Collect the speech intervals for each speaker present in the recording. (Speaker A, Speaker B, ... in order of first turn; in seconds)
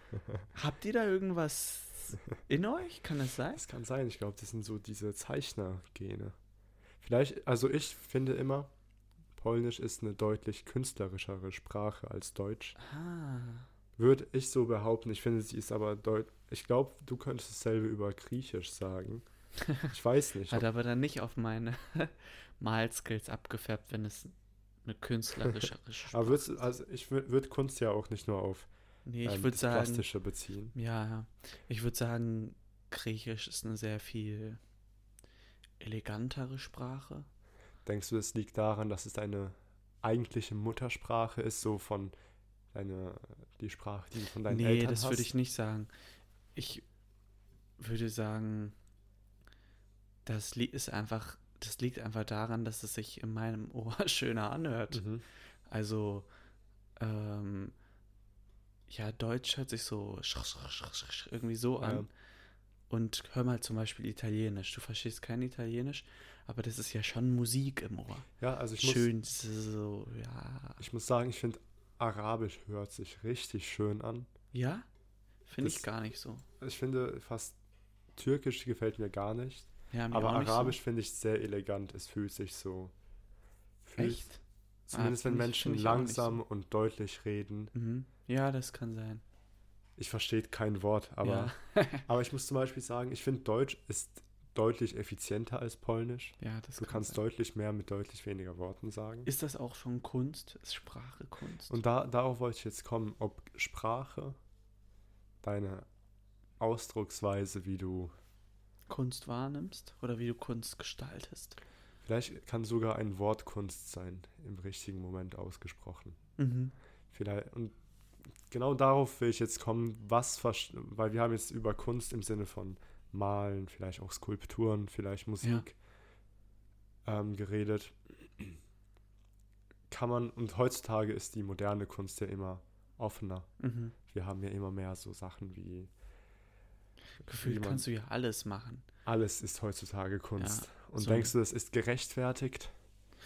Speaker A: 0.5-3.6, 12.8-13.7, 20.5-26.6, 29.1-30.1, 30.7-34.6, 35.8-37.3, 44.5-45.9, 46.5-46.8, 47.8-48.8, 50.2-55.0, 55.7-56.3, 57.0-57.7, 58.9-62.1, 62.9-68.3, 68.8-70.8, 74.5-74.9, 75.5-76.4, 79.9-80.8, 84.0-86.4, 87.7-89.2, 91.2-92.0, 96.4-97.2, 99.2-101.8, 108.9-111.6, 116.4-116.7, 133.6-133.9, 137.2-138.8, 140.4-141.3
Speaker B: 3.5-6.3, 7.0-8.7, 9.3-12.8, 14.0-19.2, 19.8-20.6, 25.5-28.7, 29.2-30.7, 37.8-42.1, 42.7-45.3, 54.9-55.2, 61.8-62.1, 68.4-69.1, 70.8-74.3, 75.6-75.8, 76.6-77.6, 78.1-82.9, 83.8-84.3, 84.9-87.7, 90.0-99.3, 101.7-104.4, 105.4-105.9, 106.6-108.1, 112.0-116.2, 117.1-117.7, 118.4-125.8, 127.0-128.6, 129.9-133.5, 134.1-135.9, 137.2-137.8, 139.0-142.7